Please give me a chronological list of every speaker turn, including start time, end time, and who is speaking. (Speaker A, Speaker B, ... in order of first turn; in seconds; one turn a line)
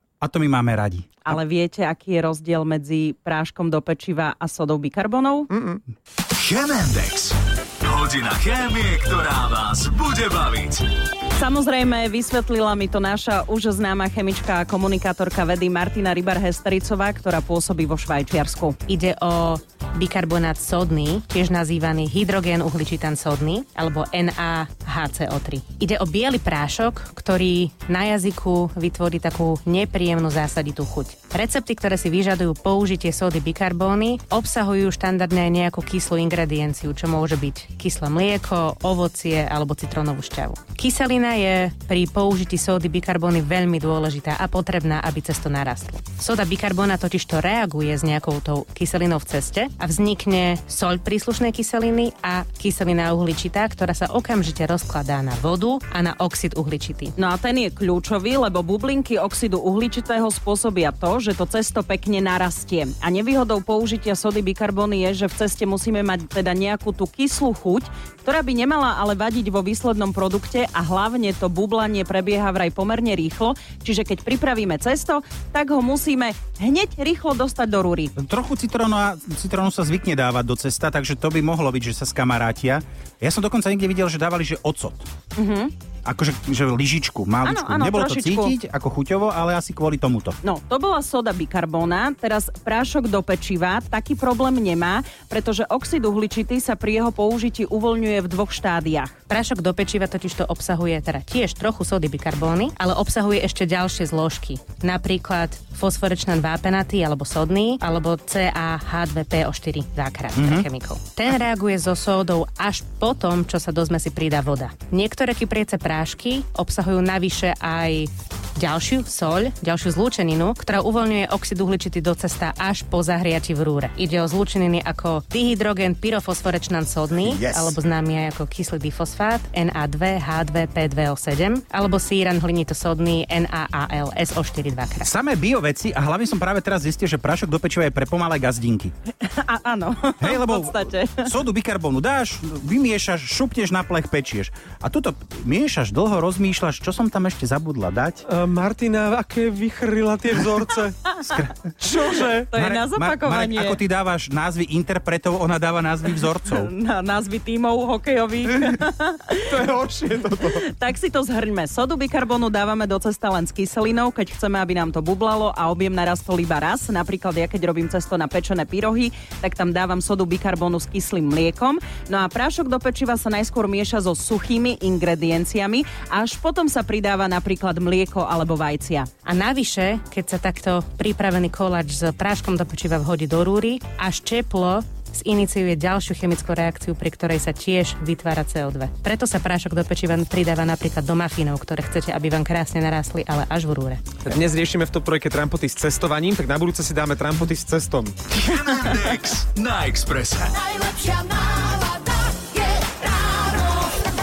Speaker A: 0.2-1.3
Speaker B: 1.2-5.5
Speaker C: 5.5-5.8
Speaker D: 6.3-10.8
Speaker B: 11.4-18.8
Speaker E: 18.9-57.1
Speaker B: 57.2-78.1
Speaker A: 78.2-85.1
Speaker B: 85.4-85.7
Speaker A: 86.0-90.4
Speaker B: 87.4-88.5
Speaker B: 90.4-99.2
Speaker E: 99.3-135.1
Speaker A: 110.4-110.7
Speaker A: 135.0-138.9
Speaker B: 139.2-141.3
Speaker A: 140.2-148.2
Speaker C: 148.3-151.2
Speaker A: 151.3-151.5
Speaker C: 151.8-152.5
Speaker B: 152.5-153.8
Speaker A: 152.5-156.7
Speaker B: 156.1-159.7
Speaker C: 159.5-160.6
Speaker B: 160.3-179.1
Speaker E: 179.2-194.0
Speaker C: 194.2-198.5
Speaker D: 198.4-200.7
Speaker B: 200.7-203.8